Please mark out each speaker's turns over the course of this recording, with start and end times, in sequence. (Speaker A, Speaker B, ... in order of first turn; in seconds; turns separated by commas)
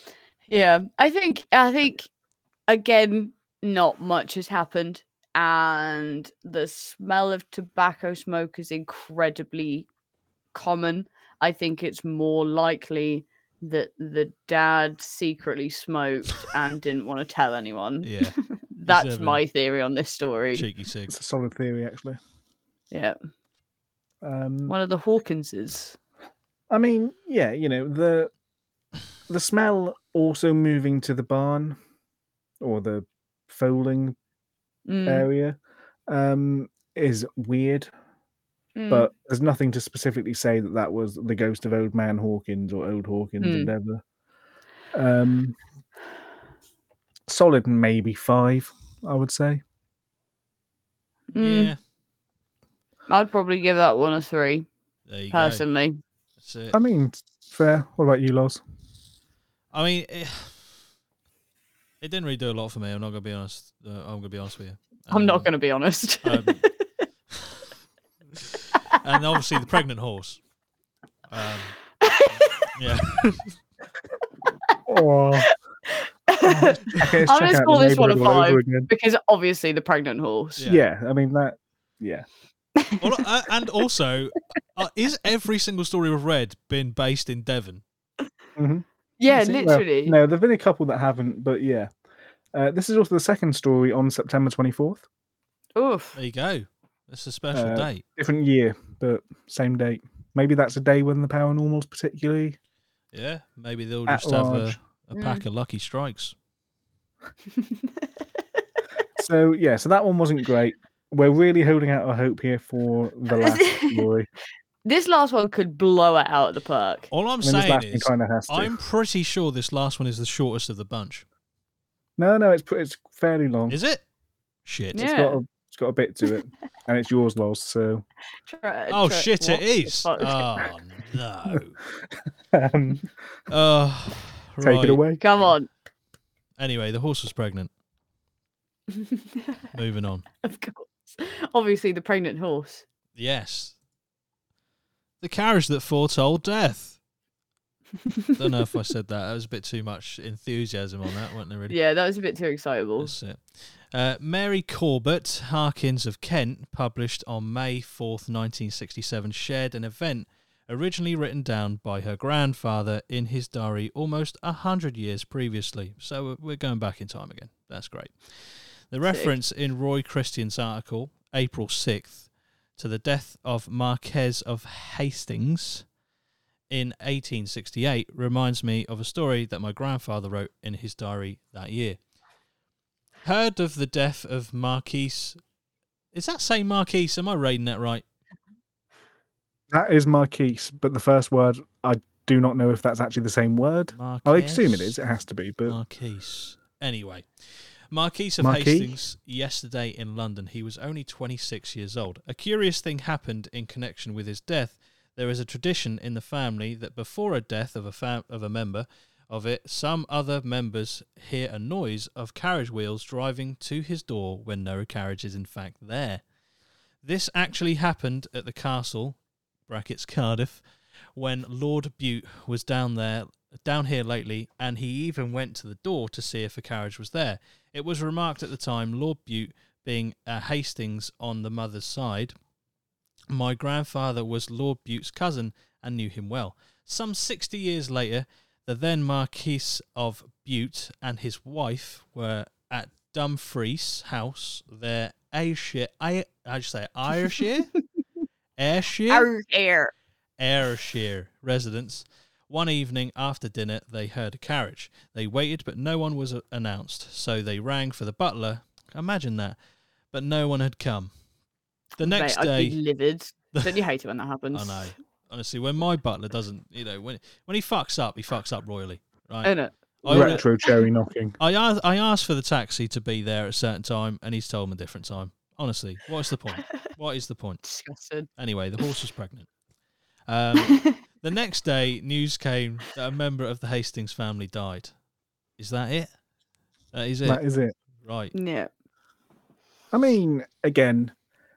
Speaker A: 0.5-2.1, Speaker A: 2.7-9.9, Speaker A: 10.5-20.6, Speaker B: 18.0-18.4, Speaker B: 18.9-19.4, Speaker B: 20.5-21.1, Speaker C: 21.1-22.2, Speaker A: 22.9-23.1, Speaker C: 24.2-24.7, Speaker A: 24.7-26.0, Speaker C: 26.7-28.3, Speaker C: 29.3-31.8, Speaker C: 32.6-34.1, Speaker A: 34.9-35.2, Speaker C: 35.0-35.6, Speaker C: 36.1-37.9, Speaker A: 38.8-39.1, Speaker C: 38.9-44.0, Speaker A: 43.4-43.7, Speaker C: 44.9-45.5, Speaker C: 47.3-49.6, Speaker A: 51.3-51.7, Speaker B: 51.4-51.8, Speaker A: 53.1-54.7, Speaker B: 55.1-55.6, Speaker A: 55.3-56.0, Speaker B: 56.4-56.8, Speaker C: 56.7-58.6, Speaker B: 59.7-60.8, Speaker B: 62.0-65.5, Speaker A: 65.1-66.8, Speaker B: 66.2-66.6, Speaker B: 69.0-70.4, Speaker B: 71.3-71.8, Speaker A: 72.0-72.7, Speaker B: 72.7-73.6, Speaker C: 74.9-75.5, Speaker A: 75.4-80.6, Speaker C: 76.4-78.9, Speaker C: 80.6-82.2, Speaker B: 83.0-87.8, Speaker C: 88.6-91.9, Speaker A: 89.2-90.2, Speaker C: 92.5-95.0, Speaker A: 95.8-96.2, Speaker B: 96.1-98.0, Speaker C: 97.5-102.6, Speaker B: 103.1-106.3, Speaker C: 104.1-104.8, Speaker A: 105.1-105.4, Speaker A: 107.6-108.1, Speaker C: 109.2-114.3, Speaker A: 113.3-114.1, Speaker A: 114.8-117.1, Speaker B: 117.1-121.2, Speaker C: 117.4-118.7, Speaker C: 122.2-123.8, Speaker B: 123.7-124.0, Speaker B: 124.7-125.0, Speaker A: 124.9-125.4, Speaker C: 124.9-128.0, Speaker A: 128.4-130.4, Speaker B: 128.9-131.8, Speaker C: 132.1-133.1, Speaker B: 133.5-135.5, Speaker C: 134.6-135.2, Speaker A: 135.2-135.7, Speaker B: 136.6-137.7, Speaker A: 139.0-139.6, Speaker B: 139.7-140.2, Speaker A: 140.4-142.8, Speaker B: 143.2-143.8, Speaker B: 145.2-147.0, Speaker B: 148.4-151.7, Speaker A: 151.7-153.1, Speaker B: 153.0-175.8, Speaker A: 169.0-169.3, Speaker B: 176.7-182.0, Speaker B: 183.2-185.4, Speaker B: 186.1-188.0, Speaker C: 189.7-195.8, Speaker B: 193.9-194.9, Speaker B: 195.7-216.2, Speaker C: 198.4-198.9, Speaker B: 217.0-232.3, Speaker B: 233.3-247.7, Speaker B: 248.6-249.3, Speaker A: 249.1-249.9, Speaker B: 250.4-259.6, Speaker B: 260.1-261.1, Speaker B: 261.9-262.8, Speaker A: 262.0-264.9, Speaker B: 264.5-270.4, Speaker A: 269.4-270.9, Speaker C: 270.1-271.4, Speaker B: 271.4-277.6, Speaker A: 277.6-278.3, Speaker B: 278.4-279.5, Speaker B: 280.3-284.9, Speaker A: 280.6-280.9, Speaker B: 285.6-286.1, Speaker B: 286.9-287.4, Speaker C: 287.2-287.7, Speaker B: 288.0-288.3, Speaker A: 288.3-288.7, Speaker C: 289.9-291.1